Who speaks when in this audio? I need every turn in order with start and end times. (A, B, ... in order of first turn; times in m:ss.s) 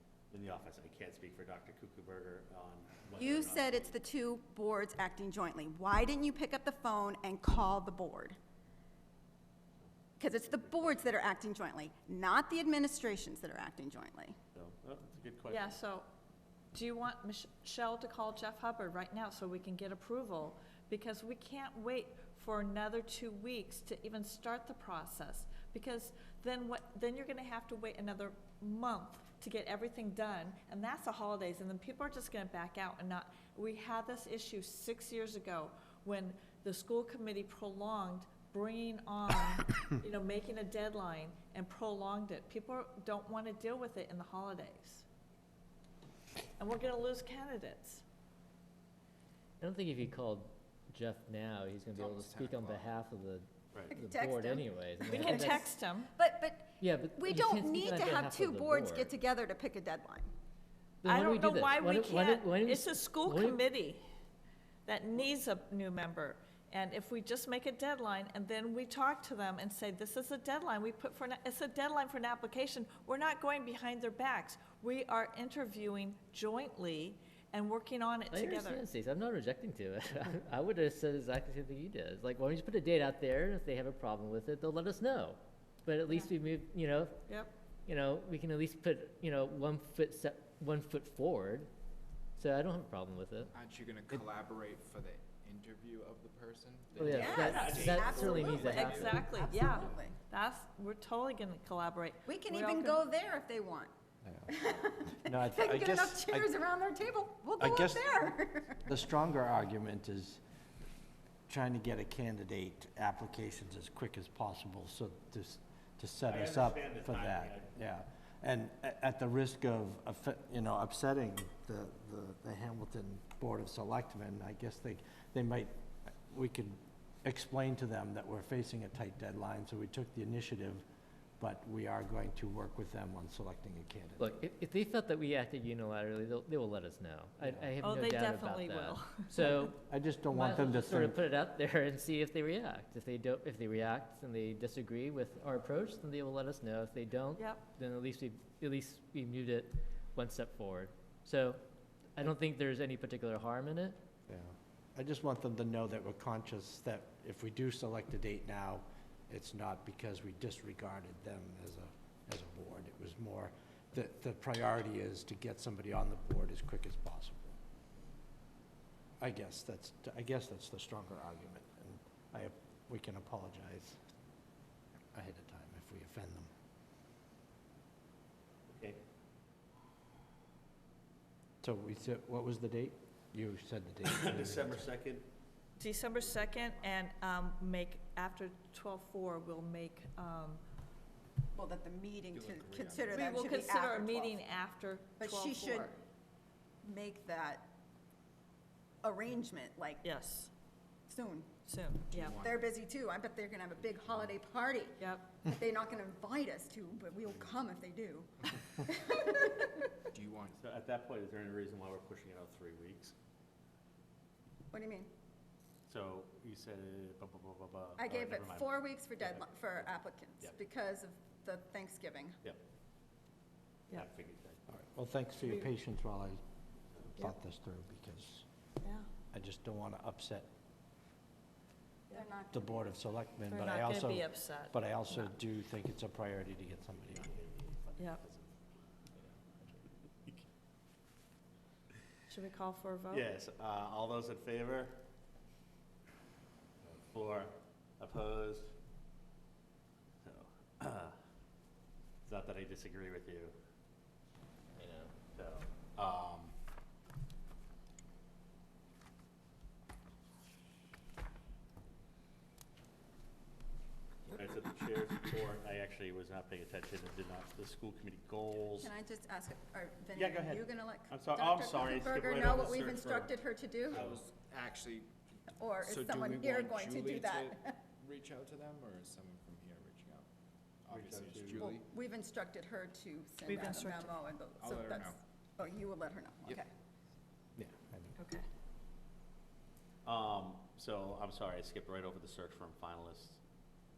0:00.3-0:03.9 A
0:03.2-0:08.4 B
0:10.2-0:14.4 B
0:10.5-0:11.0 A
0:14.5-0:15.8 A
0:15.5-0:16.1 C
0:16.7-0:45.1 C
0:46.6-0:48.0 C
0:49.6-0:55.7 D
0:51.9-0:53.0 E
0:53.9-1:00.3 B
0:55.1-0:56.1 C
0:56.8-0:59.2 D
1:01.0-1:03.6 D
1:01.0-1:04.0 C
1:04.9-1:18.8 C
1:18.3-1:27.2 D
1:27.3-1:27.5 C
1:27.9-1:31.7 D
1:32.4-1:33.5 D
1:33.5-1:39.5 E
1:37.0-1:39.2 D
1:37.1-1:40.2 B
1:37.3-1:43.0 C
1:37.5-1:38.1 A
1:42.3-1:43.9 B
1:44.2-1:44.6 F
1:44.5-1:48.8 B
1:45.2-1:46.5 F
1:47.6-1:48.2 F
1:48.8-1:50.4 F
1:51.5-2:10.8 F
1:56.3-1:57.7 A
2:11.4-2:14.3 F
2:14.2-2:19.8 D
2:17.8-2:19.7 C
2:19.4-2:21.2 F
2:20.3-2:31.6 D
2:27.4-2:27.7 C
2:32.2-2:34.0 D
2:34.3-2:47.6 F
2:49.2-2:54.0 F
2:55.1-2:56.5 F
2:58.7-2:59.0 A
3:01.6-3:04.9 F
3:04.0-3:05.3 A
3:05.8-3:10.6 C
3:06.2-3:07.0 E
3:11.6-3:14.4 B
3:12.3-3:13.4 E
3:13.1-3:16.0 C
3:15.2-3:15.9 B
3:16.8-3:17.7 B
3:19.0-3:20.1 B
3:20.0-3:20.5 C
3:21.1-3:21.5 B
3:21.7-3:22.4 C
3:22.1-3:22.7 E
3:22.4-3:29.8 B
3:25.0-3:25.3 C
3:30.1-3:30.6 E
3:30.6-3:33.1 A
3:34.7-3:35.1 B
3:35.9-3:39.9 A
3:38.0-3:42.4 B
3:43.9-3:44.6 A
3:44.7-3:46.4 F
3:47.2-3:48.5 F
3:49.3-3:50.5 F
3:52.1-3:52.9 B
3:52.5-3:57.3 F
3:53.5-3:55.3 C
3:57.1-3:58.5 A
3:58.0-3:58.2 C
4:02.3-4:03.2 C
4:03.1-4:05.0 A
4:06.8-4:08.7 A
4:10.2-4:11.2 A
4:12.2-4:13.5 A
4:14.8-4:15.1 D
4:15.3-4:16.5 A
4:24.3-4:28.9 A
4:28.8-4:34.0 B
4:30.2-4:33.3 A
4:33.9-4:40.3 E
4:33.9-4:34.2 A
4:35.6-4:37.8 B
4:40.8-4:41.9 E
4:40.9-4:41.7 A
4:41.6-4:46.7 B
4:43.5-4:44.2 C
4:44.6-4:45.2 E
4:47.6-4:48.1 F
4:48.2-4:48.4 C
4:50.0-4:53.4 A